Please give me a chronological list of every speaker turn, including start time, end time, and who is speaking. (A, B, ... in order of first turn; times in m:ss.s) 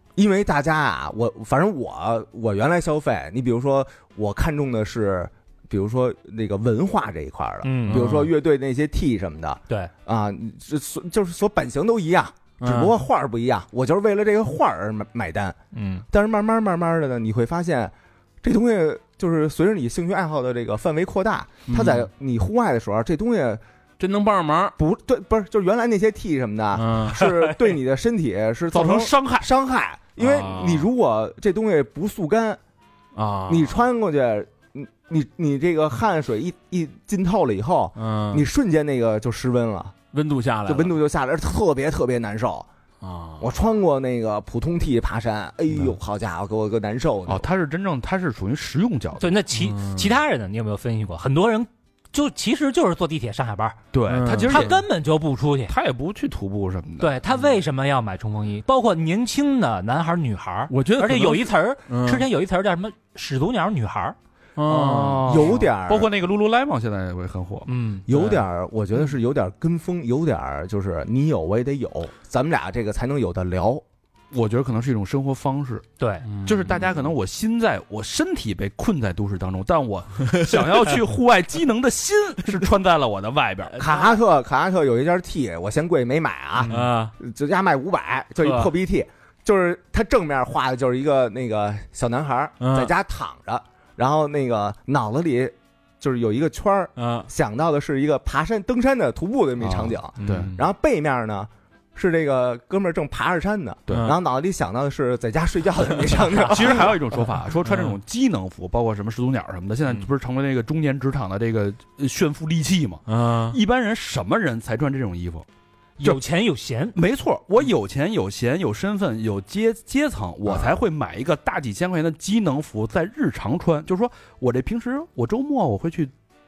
0:00.2-0:15.6 A
0:07.6-0:08.1 B
0:07.9-0:08.3 C
0:12.6-0:13.0 C
0:15.7-0:16.0 B
0:16.1-0:23.6 A
0:21.7-0:22.1 C
0:24.0-0:24.8 C
0:24.8-0:32.6 A
0:26.7-0:27.4 C
0:28.7-0:29.5 D
0:30.2-0:30.9 C
0:33.1-0:33.8 C
0:33.5-0:39.9 A
0:38.0-0:38.4 C
0:40.1-0:41.0 C
0:40.6-0:42.7 A
0:43.0-0:43.5 C
0:43.4-0:47.4 A
0:47.3-0:49.4 D
0:49.2-0:53.8 B
0:49.6-0:50.1 C
0:53.9-0:54.8 D
0:54.1-0:54.7 C
0:54.5-0:55.7 B
0:55.7-0:57.2 D
0:57.0-1:04.2 B
1:00.7-1:02.2 C
1:04.6-1:05.6 C
1:04.6-1:07.7 D
1:05.2-1:06.1 A
1:07.7-1:08.0 B
1:08.1-1:13.8 A
1:14.3-1:15.8 D
1:16.0-1:16.3 B
1:16.4-1:23.8 D
1:20.3-1:21.0 C
1:23.7-1:24.2 C
1:23.8-1:47.0 A
1:26.6-1:26.9 D
1:26.6-1:27.1 C
1:28.4-1:28.7 C
1:32.6-1:32.9 C
1:37.0-1:37.3 C
1:39.6-1:40.5 D
1:40.2-1:40.6 C
1:43.9-1:44.1 D
1:43.9-1:44.2 C
1:46.3-1:55.4 D
1:47.6-1:48.0 C
1:53.1-1:53.6 C
1:56.0-1:57.0 B
1:56.9-2:06.1 D
2:00.4-2:00.8 A